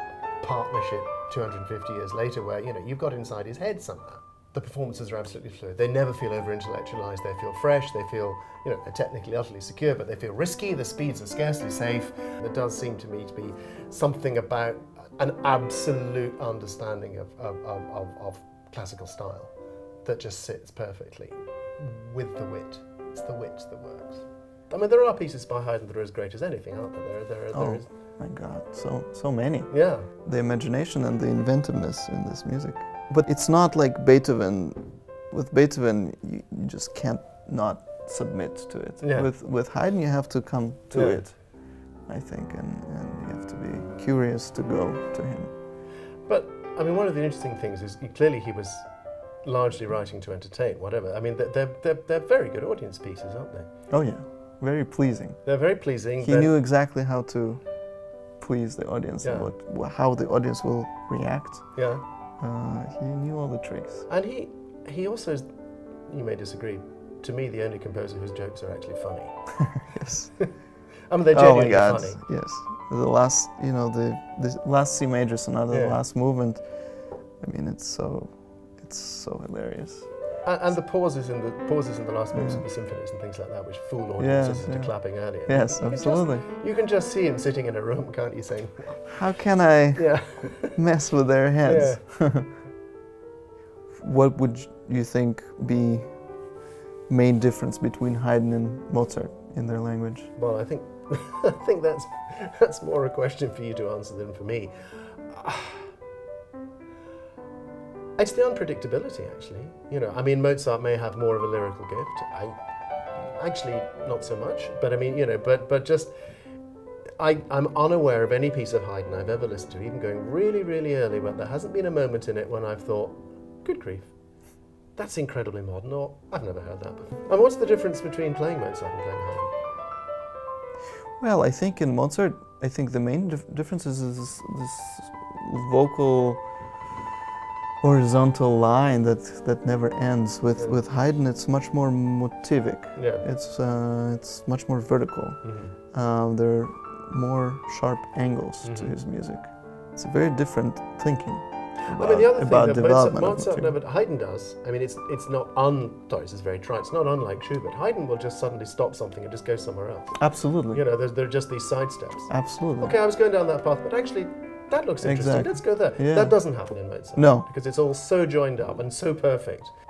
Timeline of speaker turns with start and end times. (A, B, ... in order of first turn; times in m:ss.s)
0:00.4-0:27.9 A
0:27.5-0:45.5 B
0:29.7-0:30.1 A
0:39.0-0:39.3 A
0:40.9-0:41.2 A
0:46.2-0:53.8 A
0:53.9-1:04.1 B
0:55.4-0:56.5 A
0:59.2-0:59.5 A
1:01.8-1:02.0 A
1:04.1-1:05.5 A
1:06.1-1:09.8 A
1:09.9-1:10.6 B
1:11.1-1:12.2 A
1:11.3-1:20.8 B
1:15.7-1:16.0 A
1:20.4-1:29.2 A
1:22.3-1:22.7 B
1:24.2-1:26.4 B
1:29.1-1:32.5 B
1:30.0-1:30.8 A
1:31.6-1:32.2 A
1:34.0-1:36.6 B
1:37.1-1:40.3 B
1:40.4-1:45.9 A
1:48.2-1:52.6 A
1:53.1-1:56.2 A
1:57.2-2:04.2 A
2:05.0-2:09.5 A
2:11.2-2:16.8 B
2:17.8-2:33.8 B
2:20.6-2:20.8 A
2:23.0-2:23.3 A
2:25.4-2:25.8 A
2:28.6-2:29.0 A
2:31.9-2:49.7 A
2:40.2-2:40.8 B
2:42.3-2:43.0 B
2:45.0-2:47.5 B